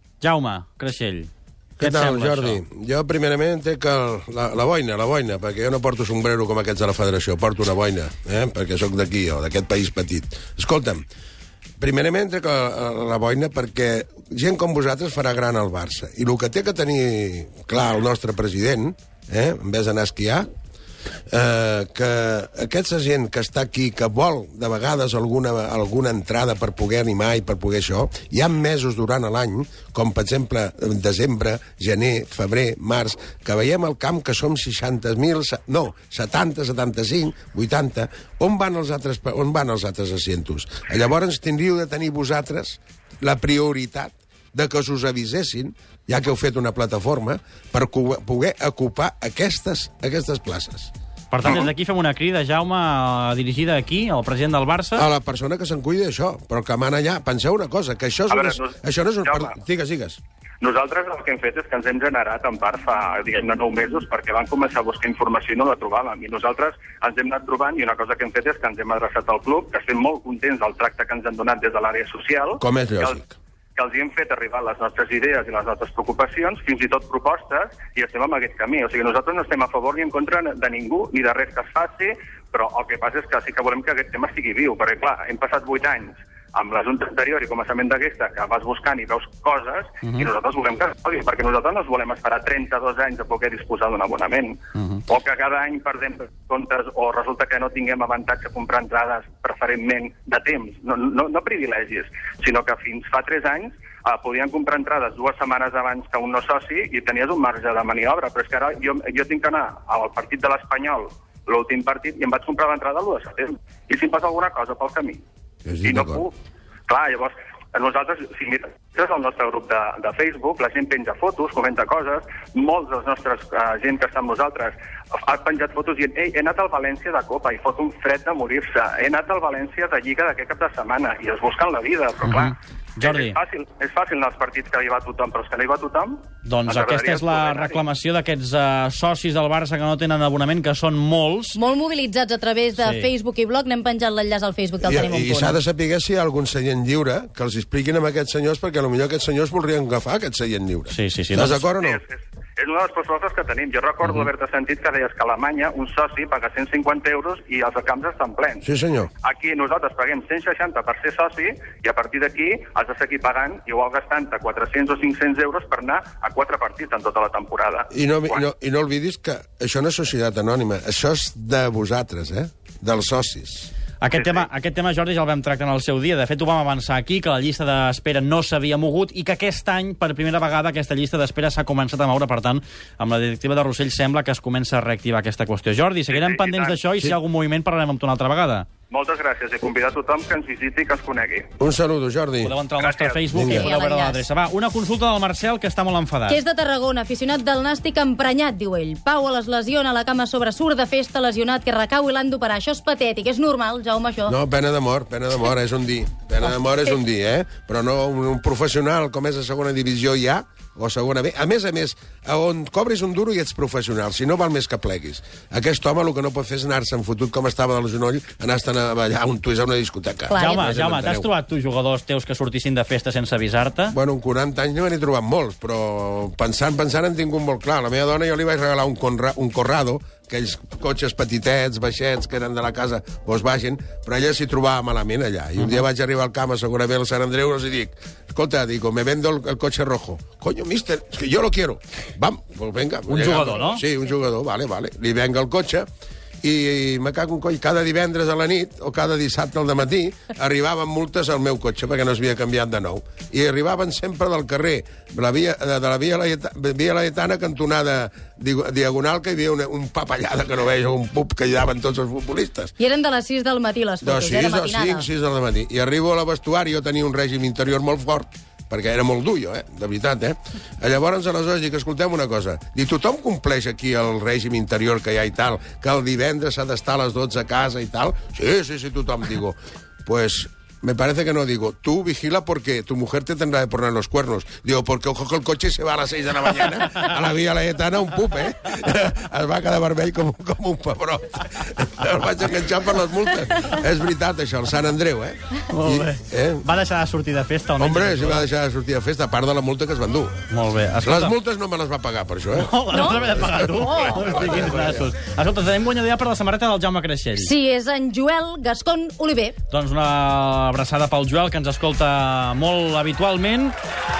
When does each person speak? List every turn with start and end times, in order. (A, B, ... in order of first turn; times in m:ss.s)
0:00.2-0:02.6 A
0:01.8-0:11.0 B
0:11.8-0:20.5 B
0:21.3-0:50.9 B
0:51.3-0:55.0 A
0:55.0-1:00.2 B
0:58.3-0:59.5 C
1:00.6-1:13.2 C
1:12.6-1:13.3 B
1:13.8-1:55.2 C
1:55.6-1:56.2 B
1:55.8-1:56.3 C
1:56.9-2:17.8 C
2:12.2-2:13.4 A
2:16.4-2:21.6 A
2:21.5-2:25.6 D
2:22.8-2:23.1 A
2:24.8-2:32.0 B
2:30.9-2:31.6 A
2:31.8-2:38.6 C
2:38.6-2:39.1 B
2:39.2-2:48.4 C
2:47.9-2:53.7 B
2:54.0-3:08.7 A
2:54.1-2:54.5 C
3:06.1-3:06.8 C
3:08.9-3:11.5 C
3:11.6-3:12.6 B
3:12.4-3:16.4 A
3:12.8-3:13.2 C
3:13.3-3:13.7 B
3:13.4-3:14.2 D
3:16.3-3:24.3 D
3:24.3-3:41.3 B
3:40.3-3:40.7 D
3:40.4-3:43.9 A
3:43.9-4:05.8 B
4:03.1-4:03.8 A
4:06.4-4:22.7 B
4:22.8-4:25.0 D
4:24.0-4:56.6 B
4:55.7-4:58.4 A
4:57.8-5:00.3 B
5:00.5-5:01.3 A
5:01.0-5:05.1 B
5:02.6-5:07.5 A
5:02.9-5:03.3 D
5:03.8-5:04.4 D
5:07.4-5:09.6 D
5:09.7-5:13.7 A